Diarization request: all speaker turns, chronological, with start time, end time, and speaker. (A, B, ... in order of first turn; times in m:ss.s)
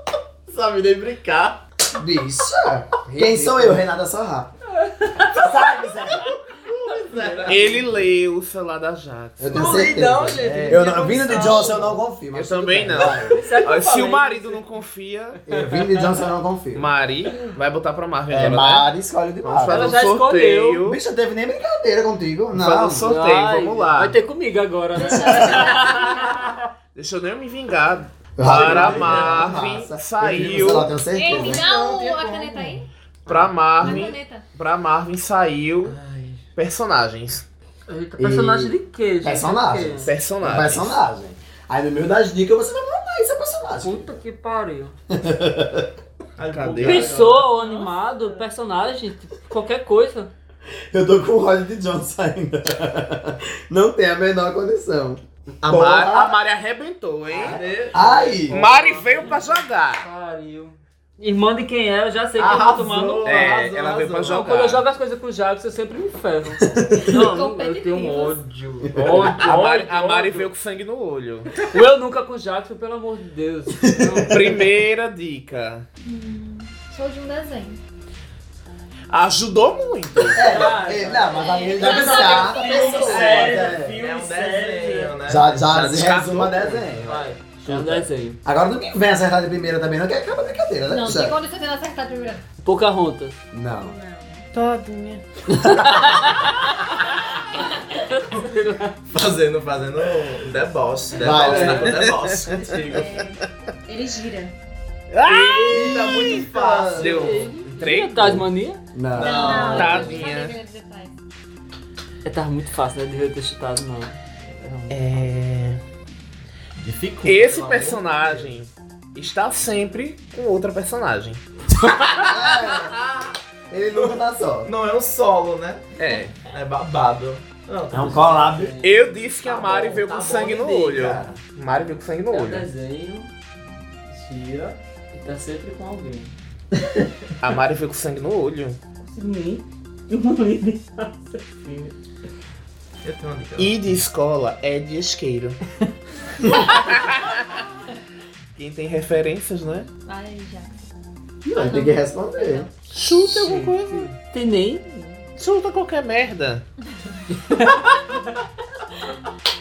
0:00.5-0:01.6 A
0:02.0-0:04.5 B
0:03.1-0:03.8 C
0:04.8-0:05.5 D
0:05.4-0:06.3 B
0:05.4-0:07.9 A
0:06.8-0:07.8 D
0:07.5-0:11.2 C
0:09.4-0:13.5 B
0:09.5-0:12.0 A
0:11.3-0:11.7 E
0:12.3-0:15.4 C
0:13.3-0:14.7 D
0:15.5-0:16.9 B
0:15.5-0:16.2 D
0:16.8-0:18.9 C
0:18.3-0:20.0 B
0:19.4-0:21.0 C
0:19.7-0:20.8 D
0:20.8-0:23.1 B
0:22.5-0:24.2 C
0:23.0-0:26.6 D
0:25.1-0:26.2 F
0:25.1-0:25.6 B
0:25.3-0:26.0 E
0:27.0-0:31.0 C
0:28.4-0:31.6 B
0:28.4-0:29.6 A
0:31.1-0:32.9 F
0:31.2-0:33.9 A
0:33.3-0:36.0 C
0:33.8-0:34.5 F
0:35.8-0:36.4 A
0:36.6-0:37.5 C
0:37.9-0:40.1 D
0:38.2-0:44.1 B
0:40.0-0:41.0 C
0:43.8-0:45.0 D
0:45.1-0:45.9 B
0:46.4-0:47.5 A
0:46.5-0:47.2 C
0:46.8-0:50.3 D
0:47.5-0:48.4 E
0:50.9-0:56.4 B
0:55.6-0:57.6 C
0:57.3-0:58.6 A
0:57.4-0:58.6 B
0:57.9-1:03.6 D
0:58.5-1:00.1 C
1:02.4-1:04.5 A
1:03.2-1:04.8 C
1:04.3-1:10.5 D
1:06.7-1:07.2 B
1:07.0-1:08.4 F
1:08.9-1:09.4 B
1:09.0-1:11.5 C
1:11.7-1:14.6 D
1:13.8-1:14.5 B
1:14.3-1:15.9 C
1:16.0-1:17.8 F
1:19.1-1:20.7 C
1:20.3-1:24.0 B
1:20.4-1:25.1 D
1:21.2-1:23.5 F
1:23.0-1:26.0 A
1:25.3-1:27.1 B
1:25.6-1:27.2 C
1:27.0-1:28.4 D
1:27.6-1:31.4 B
1:30.9-1:32.4 F
1:32.6-1:33.4 D
1:33.5-1:34.0 B
1:33.8-1:34.5 E
1:34.5-1:35.2 C
1:35.5-1:36.0 B
1:35.6-1:39.0 D
1:39.1-1:43.2 A
1:41.2-1:42.1 B
1:41.4-1:42.7 C
1:42.6-1:44.5 E
1:45.1-1:48.5 C
1:45.3-1:47.5 A
1:45.7-1:46.5 B
1:47.0-1:48.8 D
1:48.9-1:49.9 B
1:49.1-1:50.2 A
1:49.2-1:51.1 F
1:49.2-1:50.2 E
1:49.7-1:50.6 C
1:52.2-1:55.0 D
1:54.9-1:55.8 C
1:56.8-1:58.5 A
1:57.2-2:01.4 C
2:02.2-2:03.0 B
2:02.4-2:03.4 A
2:03.7-2:04.7 B
2:03.9-2:05.9 A
2:06.0-2:06.4 C
2:06.4-2:08.6 A
2:07.9-2:08.7 B
2:08.3-2:09.0 D
2:08.8-2:12.7 C
2:09.4-2:11.4 A
2:12.3-2:13.3 D
2:14.1-2:16.3 D
2:17.4-2:18.8 C
2:19.0-2:21.9 D
2:23.0-2:23.8 A
2:23.6-2:25.6 C
2:26.5-2:27.5 C
2:28.6-2:29.9 C
2:30.0-2:30.8 F
2:31.4-2:32.7 B
2:31.5-2:32.7 F
2:32.9-2:34.1 C
2:33.1-2:35.2 D
2:35.4-2:36.6 C
2:37.3-2:38.2 D